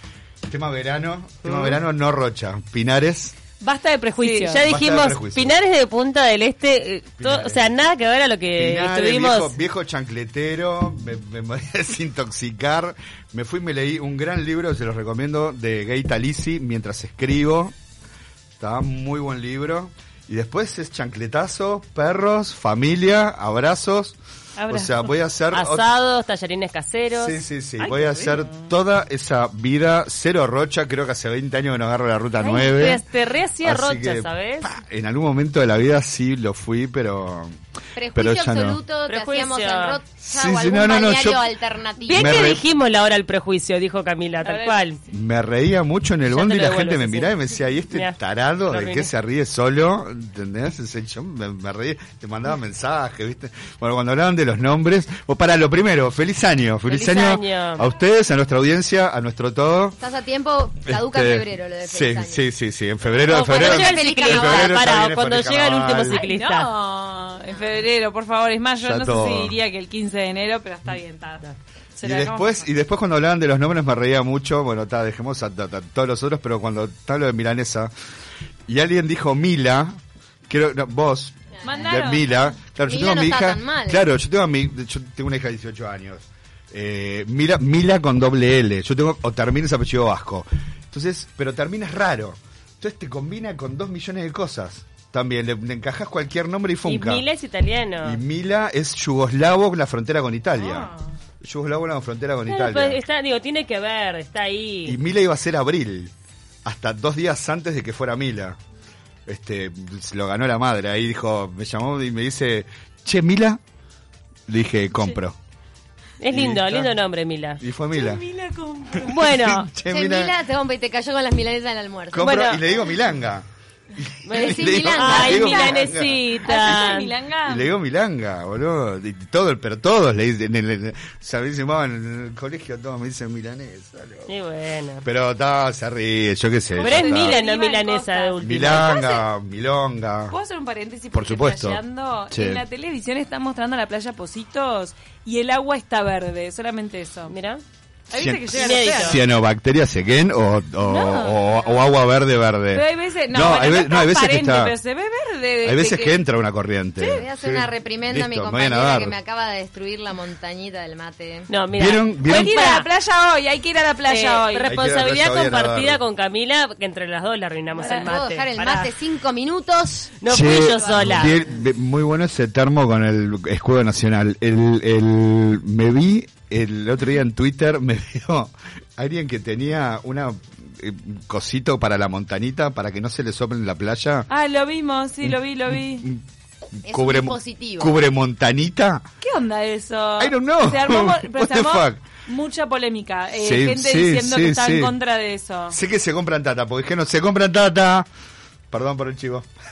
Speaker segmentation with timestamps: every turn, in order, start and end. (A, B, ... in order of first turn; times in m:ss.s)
0:00.5-0:03.4 A
0:01.4-0:01.8 B
0:03.6-0:04.7 C
0:04.2-0:09.6 B
0:04.6-0:05.6 A
0:07.2-0:07.7 A
0:08.6-0:17.7 A
0:18.6-0:24.2 A
0:24.6-0:25.1 C
0:24.7-0:25.8 A
0:25.5-0:28.5 B
0:27.1-0:33.0 A
0:32.4-0:34.7 B
0:33.6-0:37.5 A
0:37.9-0:42.6 D
0:38.1-0:38.8 A
0:39.0-0:40.0 B
0:40.2-0:41.5 A
0:42.0-0:45.0 B
0:42.1-0:42.6 A
0:44.4-0:44.8 C
0:45.1-1:00.0 A
0:46.3-0:47.3 B
0:47.9-0:48.2 B
0:48.7-0:49.1 B
0:56.9-0:57.8 B
1:00.0-1:02.4 D
1:00.8-1:06.2 A
1:03.3-1:06.7 B
1:03.3-1:04.9 D
1:06.1-1:11.4 C
1:08.8-1:09.6 A
1:12.0-1:12.6 C
1:12.0-1:17.9 A
1:18.7-1:37.2 A
1:21.6-1:22.2 C
1:22.9-1:24.0 D
1:36.8-1:38.2 B
1:38.0-1:43.0 A
1:40.6-1:41.1 C
1:42.5-1:45.0 B
1:44.8-1:46.1 A
1:46.6-1:48.6 A
1:49.2-1:53.6 A
1:54.5-1:55.4 A
1:56.2-1:57.6 B
1:56.3-1:56.9 A
1:57.6-1:58.2 A
1:57.9-1:59.2 C
1:58.9-1:59.7 B
1:59.0-2:00.3 A
1:59.8-2:02.5 D
2:02.1-2:14.3 A
2:02.2-2:02.6 B
2:04.2-2:07.1 B
2:04.3-2:05.7 D
2:05.2-2:07.7 C
2:14.3-2:15.0 B
2:15.0-2:17.4 A
2:16.8-2:19.2 C
2:16.8-2:19.0 B
2:18.4-2:20.4 A
2:20.3-2:27.3 C
2:21.1-2:22.6 A
2:27.3-2:27.6 B
2:28.1-2:29.2 C
2:28.1-2:34.7 A
2:28.5-2:29.2 B
2:30.8-2:31.7 C
2:32.7-2:36.2 C
2:35.6-2:39.2 A
2:37.0-2:41.5 D
2:41.5-2:42.9 B
2:41.7-2:42.6 A
2:42.2-2:44.7 C
2:44.1-2:48.9 B
2:44.7-2:46.0 A
2:47.8-2:50.2 D
2:47.8-2:48.1 C
2:50.2-2:51.4 B
2:50.2-3:04.3 A
2:50.7-2:51.3 C
3:04.3-3:06.0 C
3:05.2-3:09.0 A
3:06.8-3:08.0 D
3:09.2-3:15.8 C
3:10.2-3:12.0 A
3:13.3-3:14.9 A
3:15.7-3:18.1 A
3:18.7-3:19.5 A